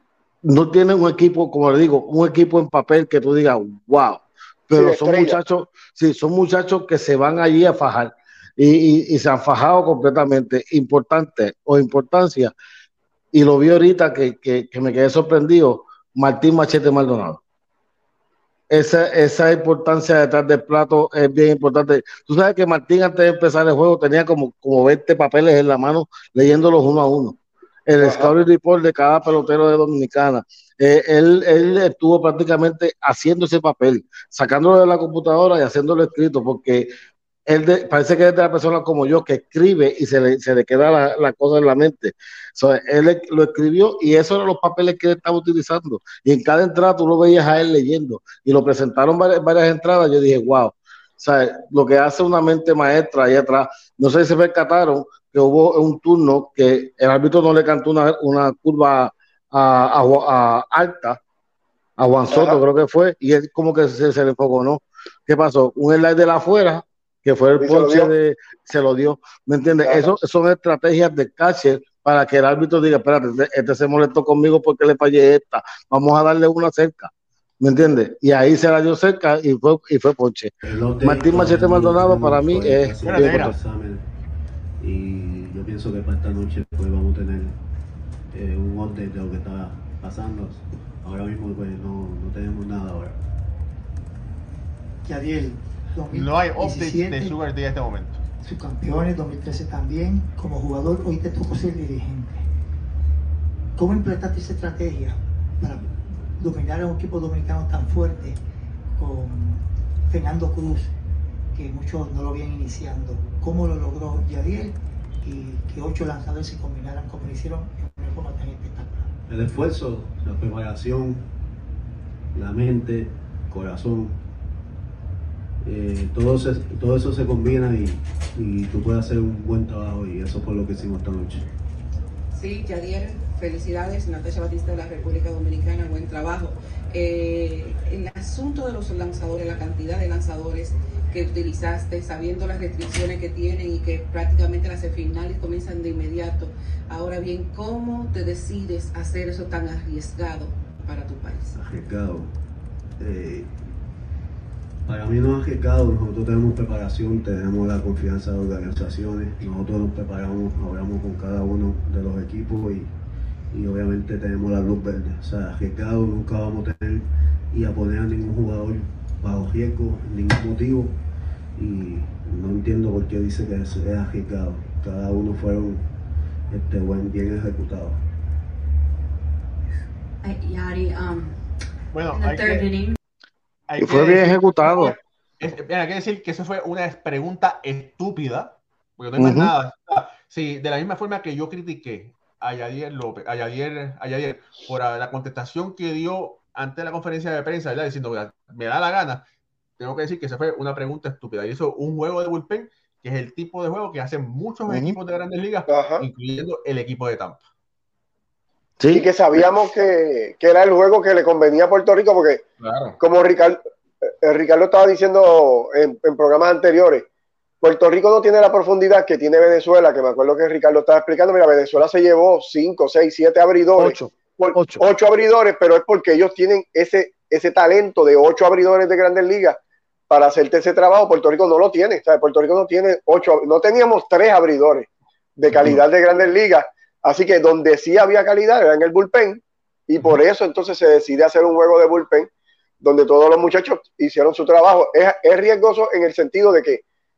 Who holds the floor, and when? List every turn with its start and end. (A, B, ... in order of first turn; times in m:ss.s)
0:00.5-0:12.5 A
0:04.7-0:05.4 B
0:13.3-0:17.4 A
0:18.7-0:27.4 A
0:27.9-0:36.9 A
0:28.0-0:28.3 B
0:37.5-1:01.2 A
1:02.0-1:20.5 A
1:02.3-1:02.6 B
1:07.6-1:08.1 B
1:09.8-1:10.1 B
1:20.7-1:24.1 C
1:21.0-1:23.6 A
1:23.0-1:23.6 D
1:24.8-1:27.6 C
1:28.3-1:33.2 C
1:35.0-1:37.4 E
1:36.1-1:38.2 D
1:38.4-1:42.4 E
1:43.8-1:48.4 E
1:49.0-1:50.9 E
1:51.5-1:59.1 E
1:59.3-2:01.3 C
2:02.3-2:04.2 C
2:05.6-2:11.5 C
2:12.3-2:31.6 F
2:31.6-2:32.3 C
2:33.0-2:33.5 C
2:34.9-2:42.9 C
2:43.5-2:51.0 C
2:51.6-2:55.9 C
2:56.5-2:58.0 C
3:00.2-3:01.4 G
3:01.9-3:02.7 D
3:02.1-3:03.0 G
3:03.7-3:19.2 D
3:03.8-3:04.9 A
3:09.2-3:09.5 A
3:19.8-3:27.4 D
3:24.7-3:25.0 A
3:25.7-3:26.0 B
3:28.8-3:29.1 A
3:28.9-3:32.4 B
3:32.6-3:33.0 D
3:33.0-3:37.0 B
3:37.6-3:49.6 B
3:43.8-3:44.8 A
3:50.1-3:54.9 B
3:55.4-4:02.3 B
3:55.6-3:55.8 D
4:02.8-4:06.8 B